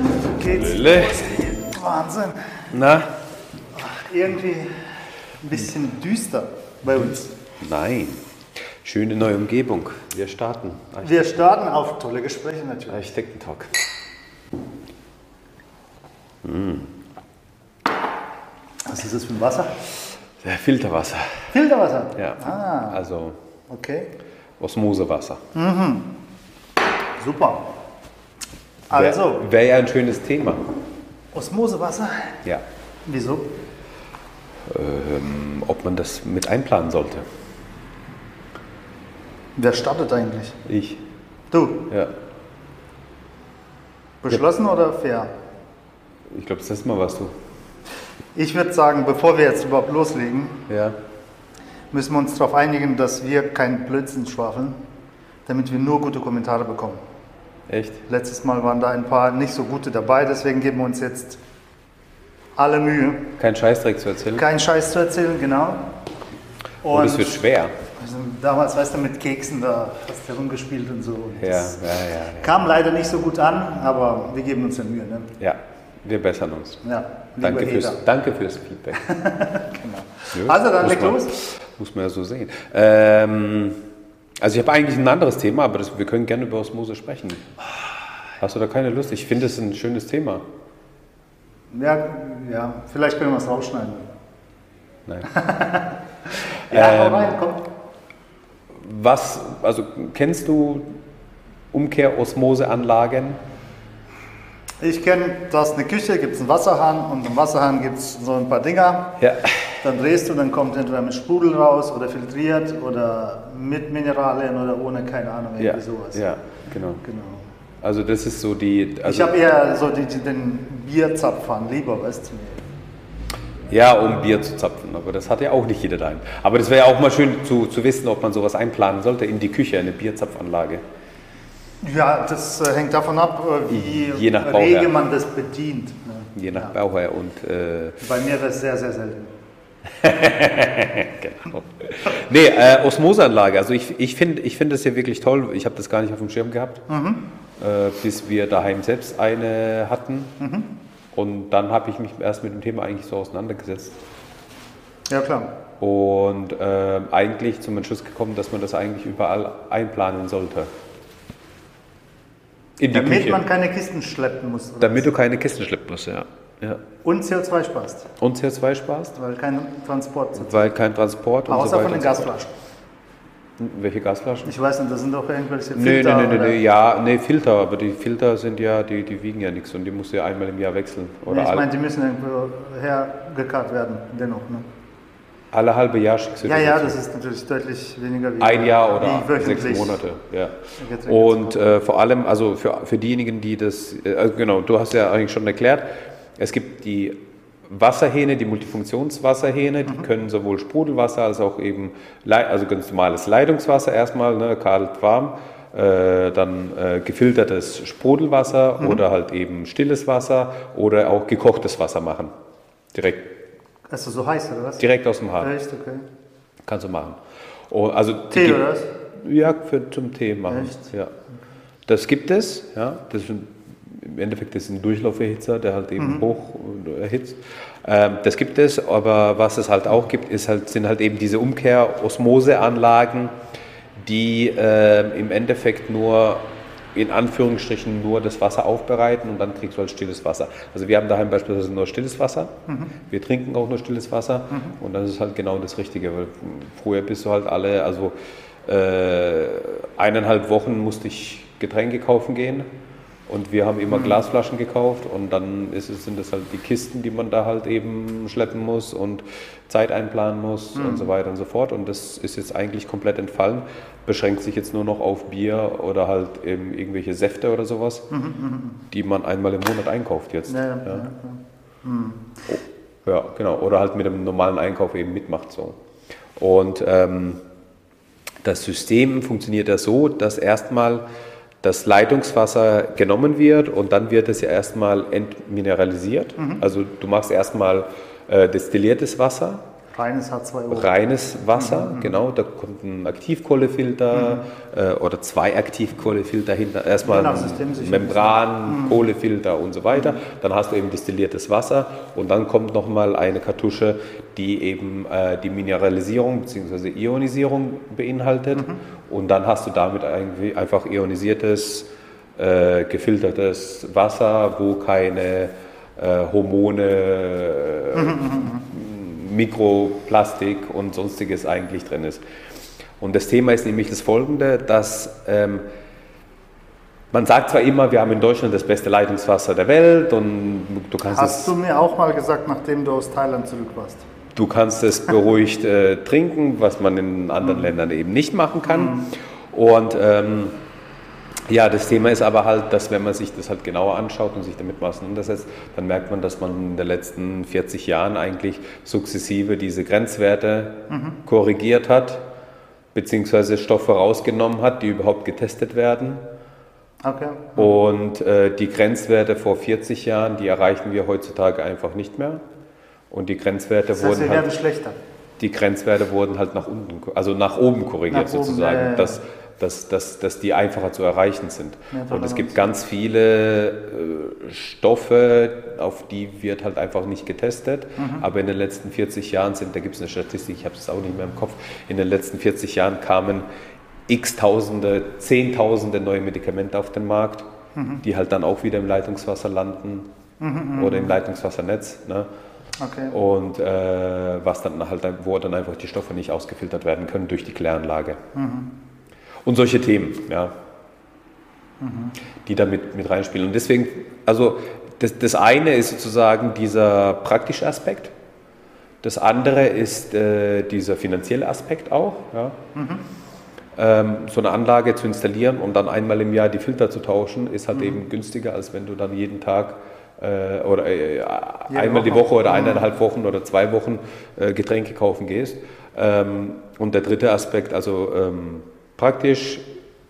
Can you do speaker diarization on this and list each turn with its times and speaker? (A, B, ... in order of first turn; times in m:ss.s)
0:00.1-0:02.6 A
0:00.4-0:01.4 B
0:02.7-0:03.1 B
0:03.8-0:04.7 A
0:05.4-0:07.3 A
0:07.6-0:08.2 B
0:08.8-0:11.2 B
0:11.0-0:13.0 A
0:12.9-0:13.8 B
0:16.4-0:16.9 B
0:18.9-0:19.8 A
0:20.4-0:21.5 B
0:21.5-0:23.0 A
0:22.2-0:23.4 B
0:23.7-0:24.1 A
0:24.6-0:25.4 B
0:25.5-0:26.1 A
0:27.2-0:27.7 A
0:28.9-0:29.4 A
0:28.9-0:30.6 B
0:31.3-0:32.4 A
0:33.1-0:33.5 A
0:34.7-0:37.3 B
0:39.6-0:40.6 A
0:40.7-0:41.0 B
0:41.5-0:41.9 A
0:44.2-0:45.3 A
0:46.3-0:47.3 B
0:48.4-0:50.6 A
0:50.7-0:51.0 B
0:51.9-0:54.8 A
0:55.5-0:57.0 A
0:57.7-0:58.0 B
0:58.1-1:01.4 A
1:02.6-1:03.3 A
1:03.4-1:04.5 B
1:04.3-1:05.9 A
1:06.8-1:07.5 A
1:06.9-1:07.8 B
1:08.0-1:11.8 A
1:11.4-1:12.7 B
1:12.4-1:15.3 A
1:15.4-1:16.8 B
1:16.8-1:18.0 A
1:17.4-1:19.0 B
1:18.9-1:21.4 A
1:20.3-1:23.8 B
1:24.4-1:27.4 B
1:28.4-1:30.4 B
1:31.7-1:34.1 A
1:35.3-1:37.7 A
1:36.7-1:37.4 B
1:38.7-1:40.9 B
1:41.7-1:43.4 B
1:44.8-1:49.2 A
1:49.2-1:49.8 B
1:49.8-1:56.3 A
1:55.6-1:57.0 B
1:57.0-1:57.5 A
1:57.8-1:59.4 B
1:59.0-2:02.7 A
2:03.7-2:10.8 B
2:11.8-2:16.8 A
2:13.7-2:14.9 B
2:16.4-2:18.0 B
2:18.0-2:19.3 A
2:20.0-2:26.8 B
2:26.9-2:27.3 A
2:27.6-2:30.3 B
2:30.4-2:30.7 A
2:31.1-2:34.0 B
2:35.1-2:35.5 A
2:35.8-2:40.7 B
2:42.8-2:43.4 B
2:42.9-2:45.1 A
2:44.8-2:46.8 B
2:47.0-2:48.1 A
2:48.2-2:49.1 B
2:49.1-2:50.7 A
2:50.4-2:52.3 B
2:51.5-2:52.5 A
2:53.6-2:54.5 B
2:54.4-2:56.6 A
2:55.8-3:01.7 B
3:01.3-3:04.7 A
3:05.5-3:07.0 B
3:06.4-3:10.0 A
3:08.4-3:15.9 B
3:10.8-3:11.7 A
3:16.4-3:32.3 B
3:32.9-3:33.3 B
3:33.9-3:34.8 A
3:34.8-3:35.5 B
3:35.4-3:36.0 A
3:36.6-3:37.2 B
3:37.7-3:38.7 B
3:38.3-3:38.9 A
3:39.2-3:41.1 B
3:40.5-3:40.9 A
3:41.9-3:53.3 B
3:46.0-3:46.3 A
3:54.0-4:02.5 B
4:02.7-4:02.9 A
4:03.1-4:08.1 B
4:04.5-4:04.8 A
4:08.6-4:12.7 B
4:13.3-4:28.0 B
4:13.9-4:14.2 A
4:20.8-4:21.1 A
4:28.1-4:28.8 A
4:28.9-4:31.1 B
4:30.5-4:32.6 A
4:32.5-4:35.8 B
4:36.4-4:37.4 B
4:38.4-4:41.0 B
4:41.6-4:49.6 B
4:46.4-4:46.6 A
4:49.9-4:50.9 A
4:50.7-5:22.2 B
4:51.5-4:52.2 A
4:54.1-4:54.4 A
4:57.0-4:59.0 A
5:08.6-5:08.8 A
5:17.9-5:18.7 A
5:23.0-5:25.6 B
5:27.1-5:31.5 B
5:31.1-5:34.1 A
5:34.4-5:40.6 B
5:37.4-5:37.7 A
5:38.7-5:39.1 A
5:41.5-5:52.2 B
5:50.9-5:51.2 A
5:52.9-5:56.2 B
5:57.0-5:57.8 A
5:57.6-6:02.4 B
6:03.1-6:04.5 B
6:04.0-6:05.0 A
6:05.4-6:23.5 B
6:08.1-6:09.2 A
6:11.9-6:12.7 A
6:18.0-6:18.2 A
6:24.1-6:27.5 B
6:27.8-6:28.0 A
6:28.0-6:30.1 B
6:30.4-6:31.2 A
6:30.8-6:32.3 B
6:32.8-6:33.2 A
6:33.1-6:38.2 B
6:38.4-6:38.7 A
6:39.4-6:40.5 B
6:41.8-6:42.2 A
6:42.5-6:48.1 B
6:49.0-6:52.6 B
6:52.8-6:53.0 A
6:53.8-7:09.6 B
6:57.7-6:58.0 A
7:01.7-7:02.8 A